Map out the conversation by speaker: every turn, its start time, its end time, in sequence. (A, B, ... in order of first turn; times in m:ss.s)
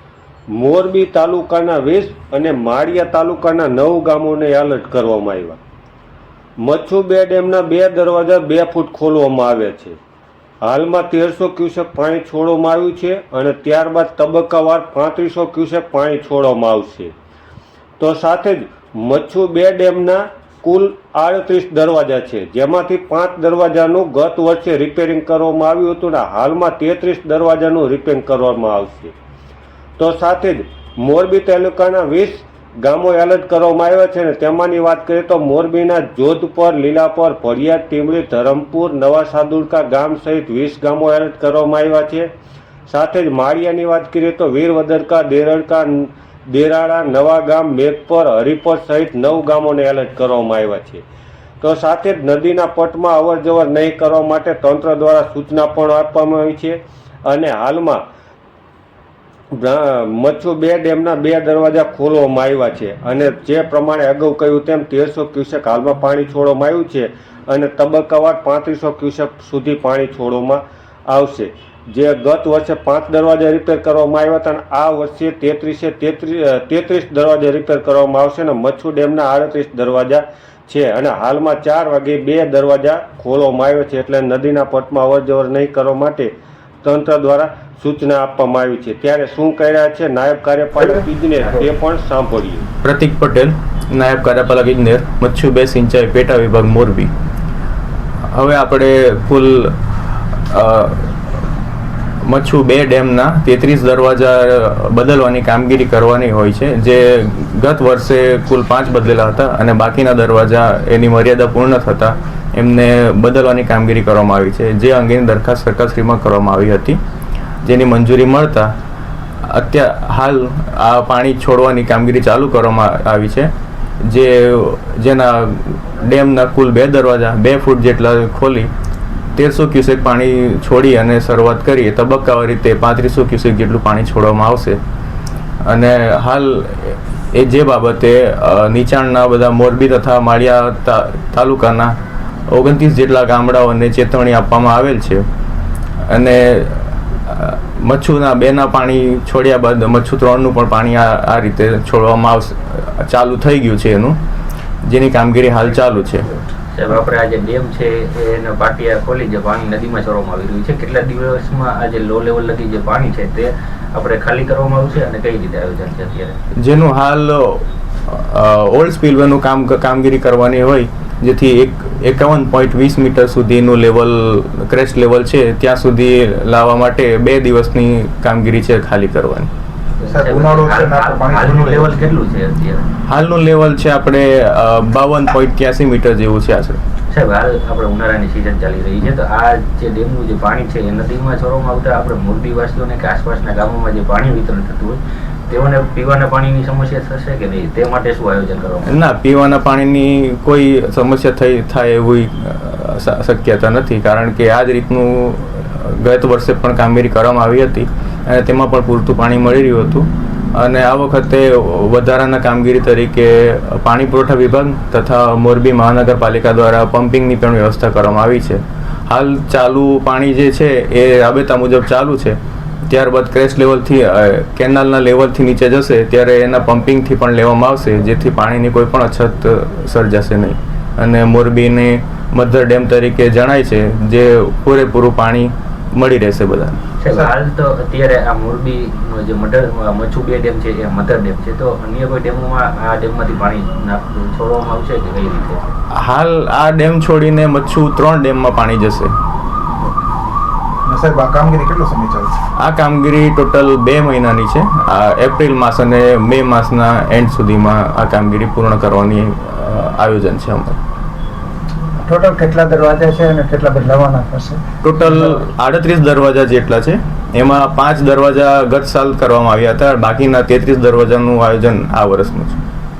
0:00.5-0:05.6 A
0:06.6-0:10.0 A
0:10.6-0:17.1 A
0:18.0-0:29.1 A
0:30.0-0:42.3 A
0:42.9-0:51.0 A
0:51.6-0:58.0 A
0:59.5-1:32.6 A
1:32.8-1:37.1 B
1:38.3-1:39.7 B
1:40.3-1:41.1 B
1:42.2-1:57.0 B
1:57.6-1:58.7 B
1:59.4-2:03.5 B
2:04.0-2:08.7 B
2:09.3-2:14.8 B
2:15.6-2:21.9 B
2:22.5-2:25.2 B
2:26.1-2:34.2 B
2:34.9-2:36.3 B
2:36.7-2:46.4 C
2:46.6-2:59.5 B
3:00.0-3:02.8 C
3:00.1-3:02.1 D
3:03.1-3:06.8 B
3:07.1-3:19.0 C
3:18.8-3:42.4 B
3:42.9-3:56.8 B
3:57.0-4:05.7 C
4:05.9-4:09.1 B
4:10.8-4:12.4 D
4:12.6-4:20.8 B
4:22.0-4:25.2 E
4:24.8-4:32.6 B